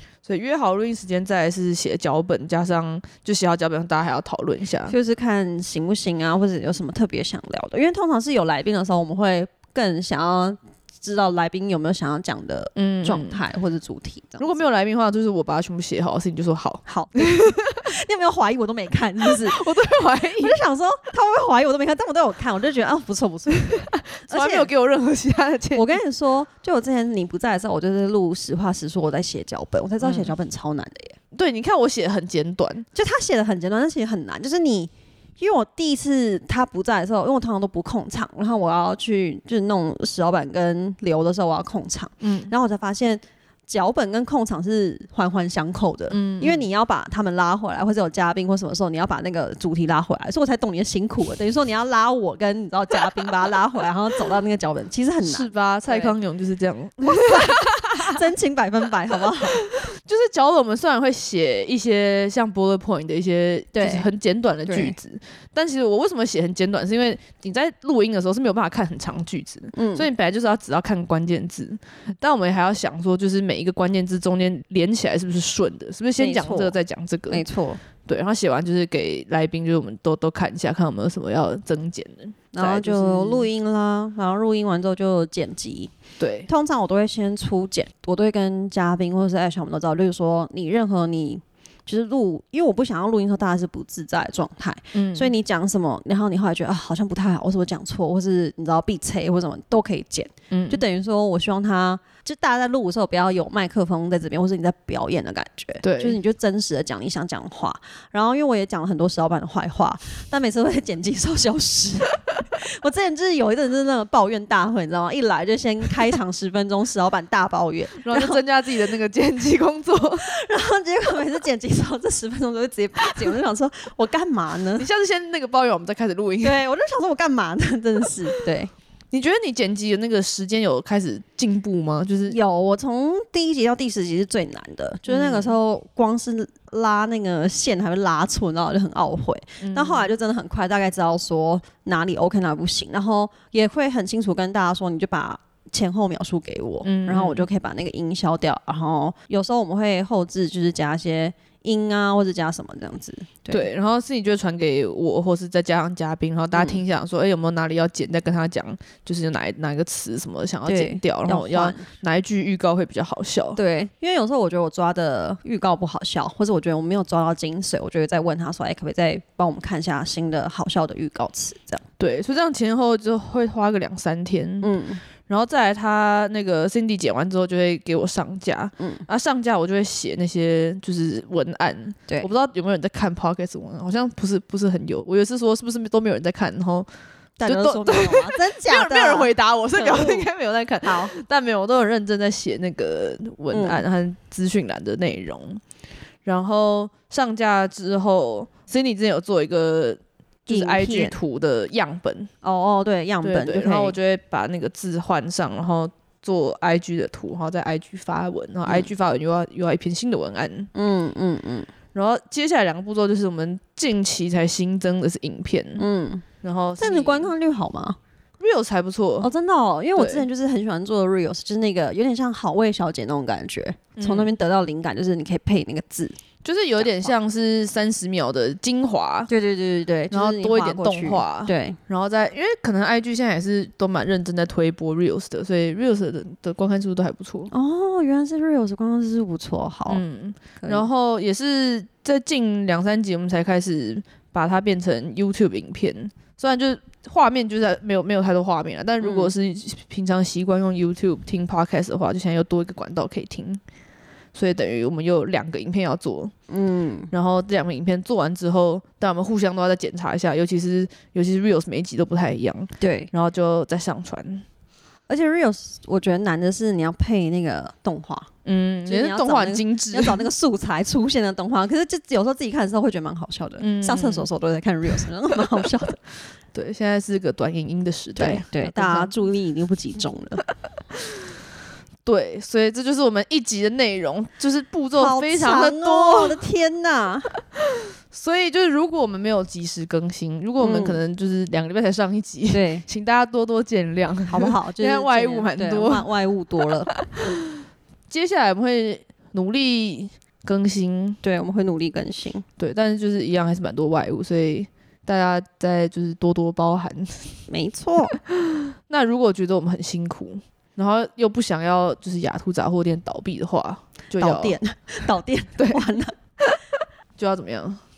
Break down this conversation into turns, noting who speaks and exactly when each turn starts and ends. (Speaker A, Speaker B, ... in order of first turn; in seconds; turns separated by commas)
Speaker A: 0.2-4.9, Speaker B: 4.9-14.6, Speaker A: 12.7-13.4, Speaker A: 14.4-17.9, Speaker B: 16.9-19.6, Speaker A: 19.2-20.6, Speaker B: 20.4-24.7, Speaker A: 23.6-26.0, Speaker B: 25.7-31.1, Speaker A: 30.0-30.3, Speaker A: 31.3-32.9, Speaker B: 32.9-56.1, Speaker A: 42.2-42.5, Speaker A: 46.1-46.7, Speaker A: 55.2-58.2, Speaker B: 57.0-59.6, Speaker A: 59.2-77.4, Speaker B: 63.7-64.1, Speaker B: 64.7-64.9, Speaker B: 69.7-70.1, Speaker B: 76.2-76.8, Speaker B: 77.3-77.8, Speaker A: 78.0-83.5, Speaker B: 82.5-85.9, Speaker A: 86.2-86.5, Speaker B: 86.5-118.4, Speaker A: 94.9-95.3, Speaker A: 100.5-100.8, Speaker A: 105.8-106.2, Speaker A: 118.0-120.3, Speaker B: 120.2-124.8, Speaker A: 124.8-126.6, Speaker B: 126.4-128.7, Speaker A: 129.1-132.4, Speaker B: 132.3-153.7, Speaker A: 135.1-135.5, Speaker A: 139.6-140.1, Speaker A: 146.8-147.5, Speaker A: 153.5-163.6, Speaker B: 156.5-156.8, Speaker B: 160.7-161.8, Speaker B: 163.6-171.8, Speaker A: 172.0-174.7, Speaker B: 174.6-175.0, Speaker A: 175.2-186.9, Speaker B: 178.8-179.0, Speaker B: 187.4-190.3, Speaker A: 187.4-195.6, Speaker B: 190.8-191.1, Speaker B: 193.5-193.8, Speaker A: 196.2-202.3, Speaker B: 200.5-201.1, Speaker B: 202.4-203.9, Speaker A: 203.2-210.7, Speaker B: 210.7-211.7, Speaker A: 211.9-215.8, Speaker B: 215.8-216.2, Speaker A: 216.4-217.3, Speaker B: 216.8-218.0, Speaker A: 218.4-219.3, Speaker B: 219.2-226.1, Speaker A: 219.9-220.2, Speaker A: 223.9-224.3, Speaker A: 226.4-229.3, Speaker B: 226.8-227.1, Speaker B: 229.3-231.8, Speaker A: 230.1-237.5, Speaker B: 237.5-240.0, Speaker A: 239.9-253.6, Speaker B: 240.6-240.8, Speaker B: 249.0-249.3, Speaker A: 254.3-256.3, Speaker B: 256.5-257.1, Speaker A: 257.1-264.4, Speaker B: 262.8-263.1, Speaker B: 265.1-268.3, Speaker A: 268.4-270.2, Speaker B: 268.9-276.0, Speaker A: 273.6-274.3, Speaker A: 276.5-279.1, Speaker B: 278.2-280.4, Speaker A: 282.1-286.4, Speaker B: 284.9-287.3, Speaker A: 287.7-296.1, Speaker B: 290.6-291.0, Speaker B: 292.5-292.9, Speaker B: 294.3-297.3, Speaker A: 296.9-297.4, Speaker A: 298.1-301.2, Speaker B: 301.2-302.4, Speaker A: 302.6-307.4, Speaker B: 307.5-308.2, Speaker A: 308.2-314.6, Speaker B: 314.2-316.1, Speaker A: 315.6-316.6, Speaker A: 317.2-317.8